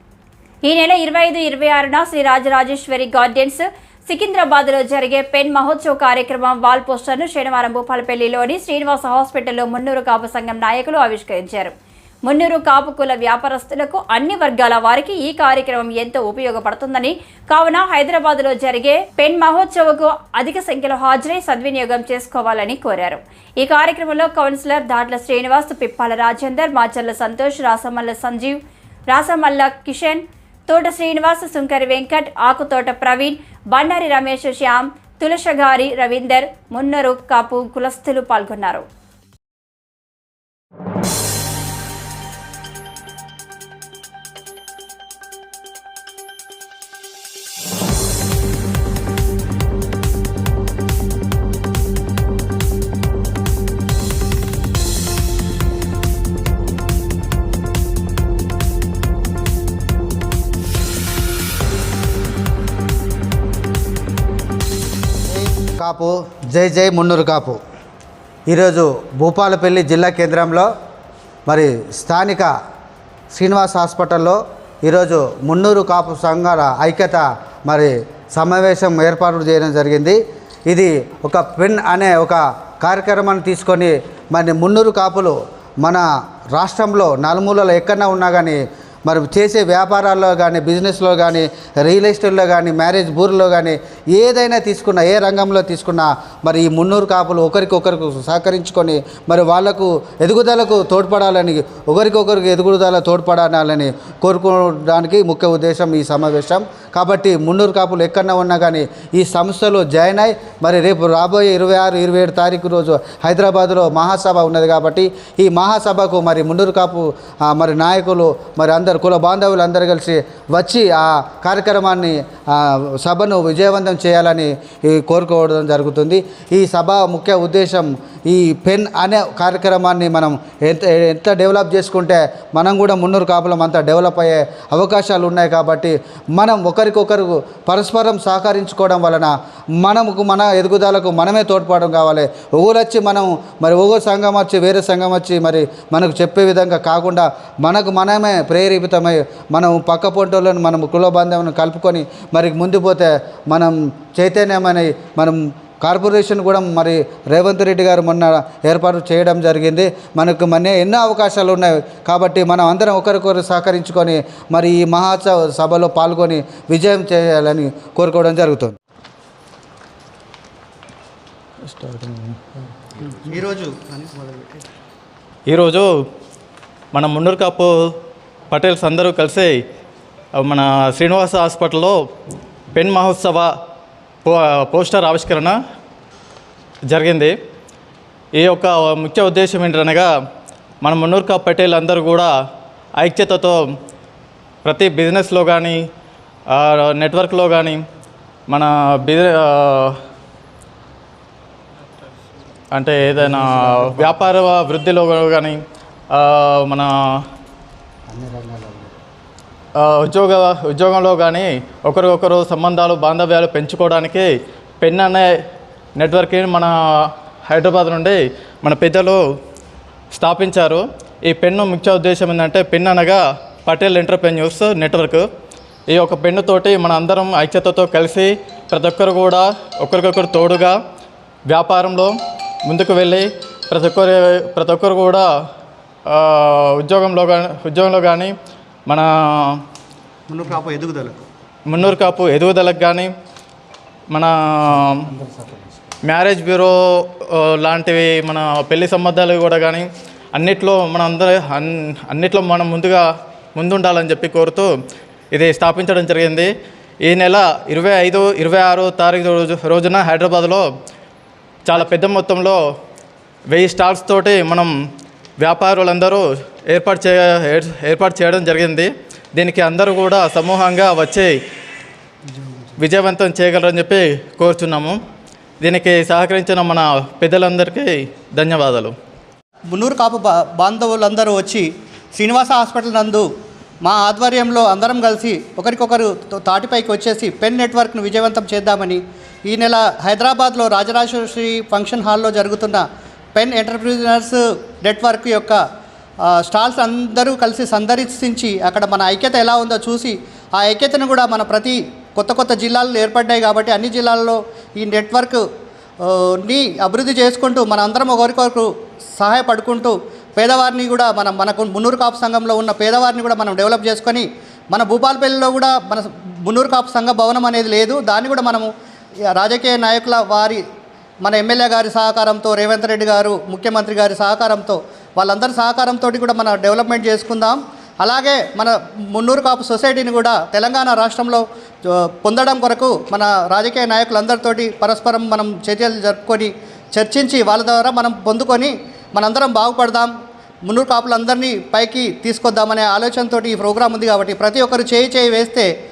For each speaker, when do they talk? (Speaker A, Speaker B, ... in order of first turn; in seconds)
Speaker A: 0.6-11.7, 12.2-38.9
Speaker B: 65.4-67.6, 68.5-70.7, 71.5-72.5, 73.3-139.3, 139.8-168.8, 203.4-204.1, 208.1-208.9, 245.1-245.7
Speaker C: 171.7-172.4, 175.5-175.9, 176.9-177.9, 178.5-179.5, 180.4-182.0, 182.7-183.5, 184.2-185.6, 186.9-187.3, 188.4-190.1, 190.8-192.3, 193.0-193.6, 194.6-195.8, 196.5-197.8, 198.5-200.0, 202.7-205.6, 206.1-207.2, 209.8-215.2, 216.0-219.2, 220.1-225.3, 225.9-230.8, 231.5-232.1, 232.7-235.3, 236.1-238.3, 238.9-239.6, 241.7-243.1, 244.1-245.1, 246.0-254.7, 255.3-256.5, 257.0-260.7, 261.6-262.6, 263.5-264.7, 265.4-271.3, 272.8-275.0, 275.6-278.9
Speaker D: 173.0-174.6, 240.3-241.2, 279.7-283.2, 283.8-295.6, 296.2-305.4, 306.0-318.7, 319.3-320.6, 321.2-340.1, 340.6-345.7